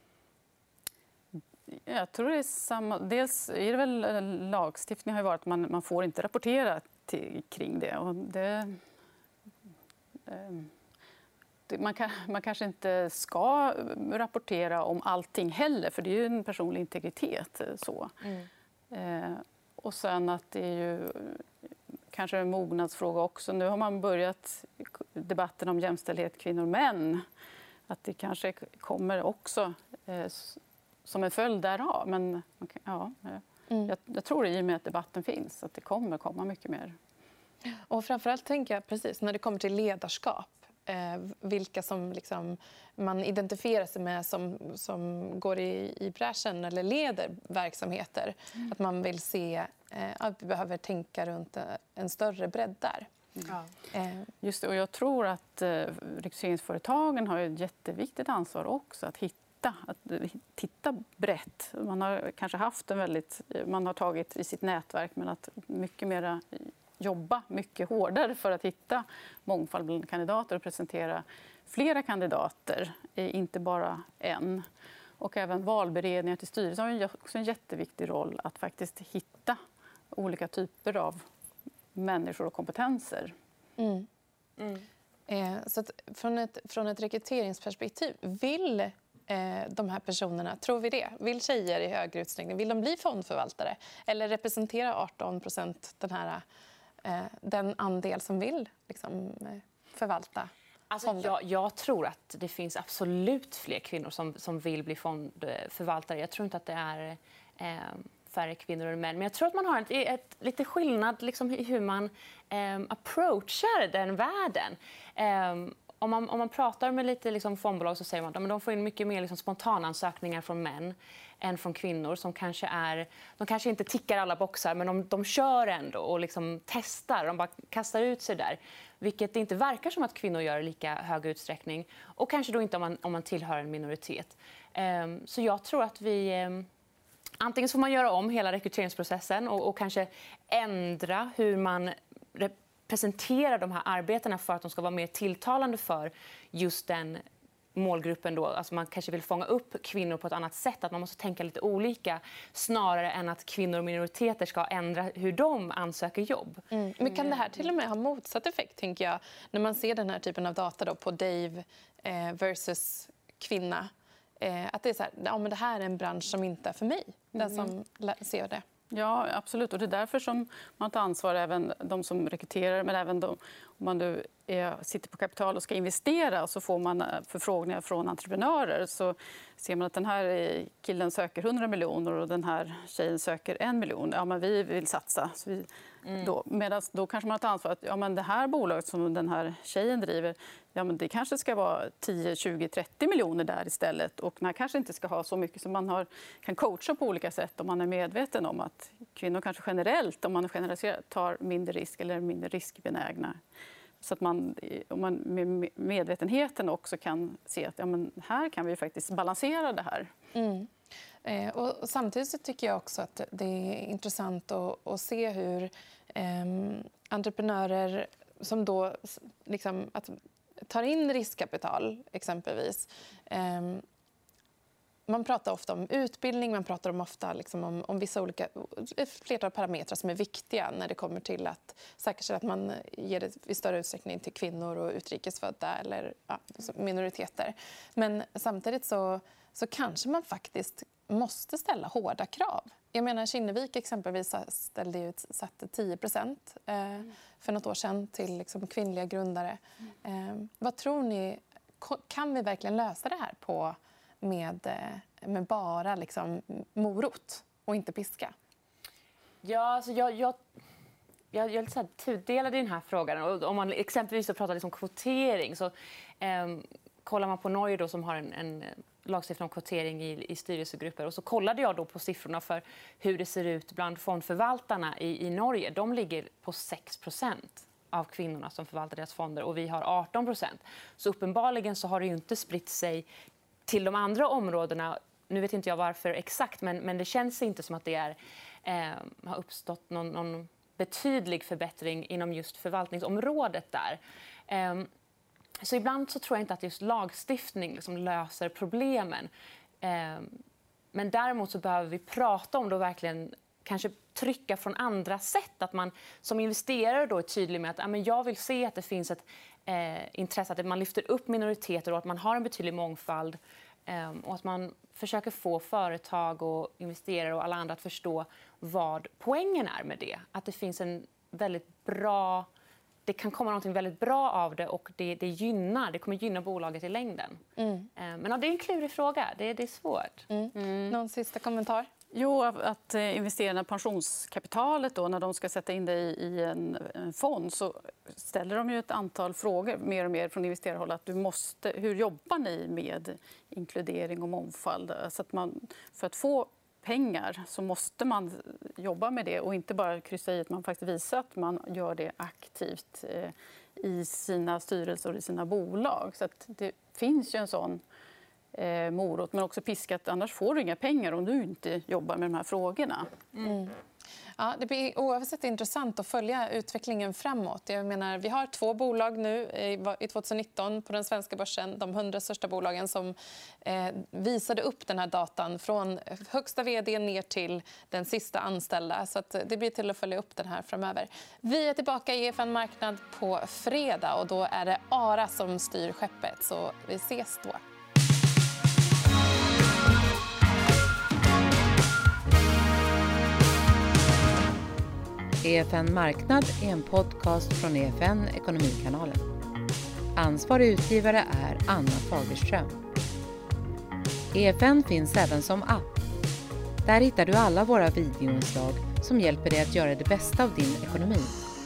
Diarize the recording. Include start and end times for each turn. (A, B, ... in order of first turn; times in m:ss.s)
0:01.7-0:08.8 A
0:10.2-0:10.7 A
0:11.7-0:18.2 A
0:18.9-0:21.5 A
0:22.1-0:27.2 A
0:27.9-0:37.0 A
0:37.7-0:53.1 B
0:53.9-0:54.3 B
0:54.4-1:14.6 A
1:15.2-1:19.6 A
1:20.1-1:21.2 A
1:21.9-1:23.3 A
1:23.8-1:24.1 B
1:24.6-1:24.8 C
1:25.3-1:36.4 B
1:37.0-1:40.5 B
1:40.9-2:16.7 C
1:41.0-1:41.3 B
2:17.4-2:27.2 C
2:27.7-2:37.3 C
2:36.7-2:48.6 B
2:48.9-3:23.4 A
3:24.0-3:30.1 A
3:30.3-3:30.7 B
3:31.2-3:43.8 B
3:45.1-4:18.3 B
4:19.4-4:20.4 C
4:21.3-4:43.0 C
4:43.7-4:54.9 C
4:55.6-4:59.3 C
4:59.8-5:00.4 C
5:00.9-5:22.5 C
5:23.0-5:27.4 C
5:27.6-5:27.9 B
5:28.0-5:30.3 C
5:30.3-5:31.9 B
5:30.6-5:30.9 A
5:32.1-5:57.8 A
5:58.5-6:03.2 A
6:03.4-6:03.7 B
6:04.4-6:27.6 B
6:35.4-6:39.3 D
6:40.1-6:42.8 D
6:44.3-6:46.0 D
6:46.8-6:51.4 D